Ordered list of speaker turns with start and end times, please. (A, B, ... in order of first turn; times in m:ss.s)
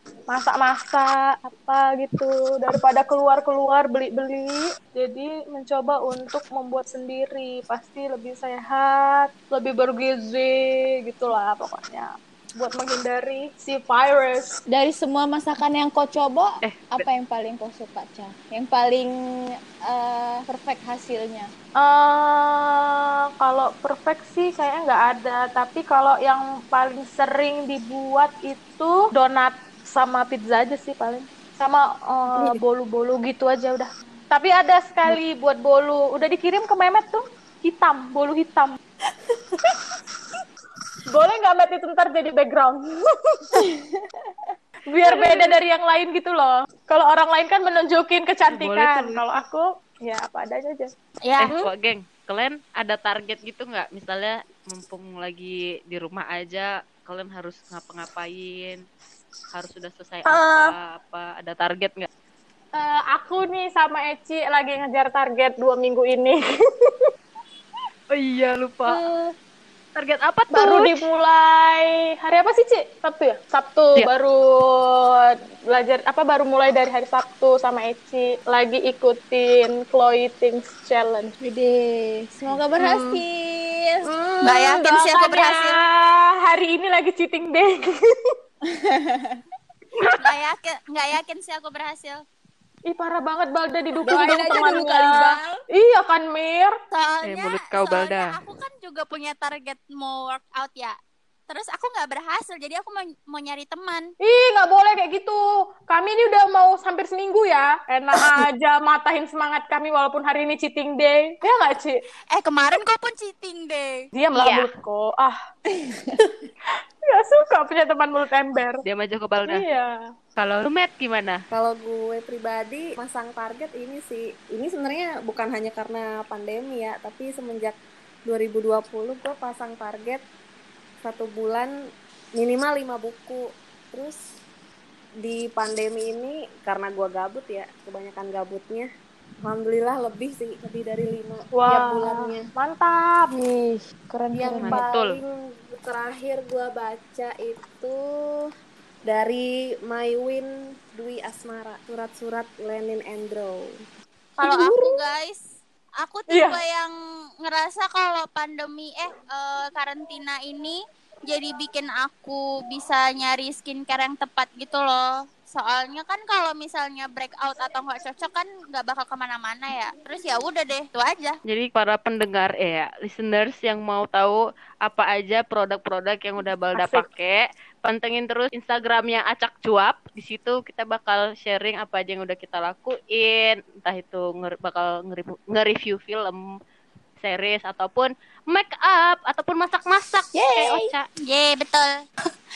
0:00.3-0:14.6 A
0:14.6-0:21.5 B
0:16.6-0:17.1 C
0:21.8-0:38.8 A
0:41.1-0:43.6 A
0:44.9-0:50.9 A
0:45.2-0:45.5 B
0:48.5-0:49.2 C
0:51.2-0:51.5 D
0:51.4-0:58.8 C
0:59.5-1:02.1 C
1:00.3-1:00.7 B
1:02.7-1:06.4 A
1:08.1-1:09.0 C
1:08.8-1:09.3 A
1:09.9-1:11.0 C
1:10.5-1:21.3 A
1:21.4-1:24.1 B
1:24.0-1:28.3 A
1:24.4-1:25.8 D
1:28.7-1:29.4 B
1:29.9-1:30.3 C
1:30.2-1:32.2 D
1:32.9-1:36.8 A
1:34.0-1:35.6 B
1:36.9-1:41.0 D
1:37.2-1:38.4 C
1:41.5-1:44.1 D
1:44.2-1:52.0 A
1:52.3-1:54.1 D
1:54.1-1:55.4 A
1:54.4-1:54.7 C
1:57.0-1:58.8 A
1:58.8-1:59.7 C
1:59.4-2:00.0 A
2:00.4-2:01.4 C
2:01.5-2:10.2 E
2:11.0-2:11.7 E
2:12.4-2:14.2 E
2:15.2-2:18.9 E
2:19.4-2:22.5 E
2:21.5-2:23.4 A
2:24.1-2:24.8 B
2:24.3-2:28.5 E
2:24.5-2:25.2 C
2:29.0-2:33.6 E
2:34.4-2:35.0 A
2:34.4-2:35.4 D
2:36.0-2:51.4 D
2:36.3-2:36.6 A
2:51.4-3:06.4 C
2:56.7-2:57.0 A
3:07.2-3:11.1 C
3:11.2-3:12.0 D